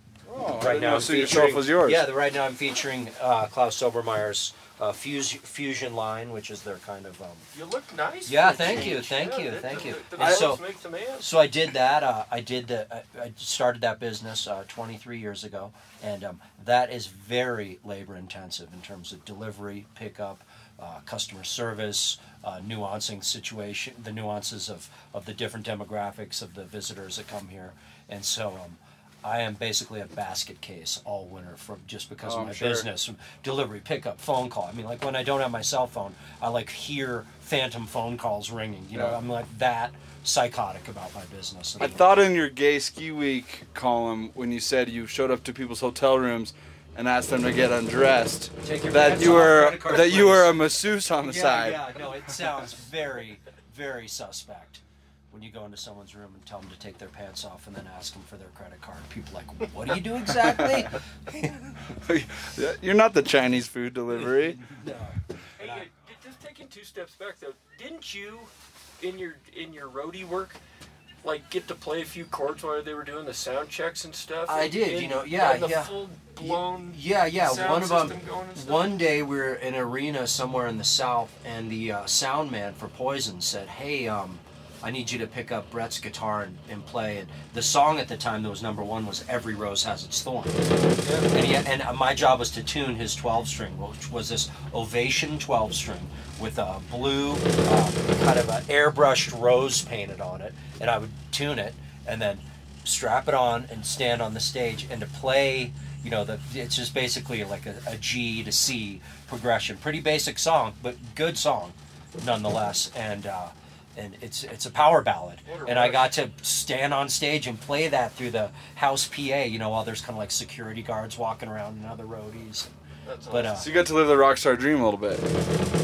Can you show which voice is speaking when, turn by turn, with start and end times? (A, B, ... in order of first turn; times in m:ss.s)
0:00.3-0:02.1 A
0:00.6-0:07.5 B
0:07.5-0:11.3 C
0:08.3-0:42.0 B
0:10.2-0:10.5 A
0:32.2-0:32.9 A
0:38.9-0:39.2 A
0:41.8-0:51.8 A
0:48.6-1:01.8 B
1:00.3-1:00.9 A
1:01.9-1:04.7 A
1:04.1-1:05.9 B
1:05.6-1:10.6 C
1:11.2-1:19.0 C
1:14.5-1:30.6 B
1:31.0-1:31.3 C
1:31.3-2:02.7 B
1:55.5-1:56.2 C
2:03.0-2:03.8 C
2:03.3-2:03.7 B
2:03.6-2:05.2 A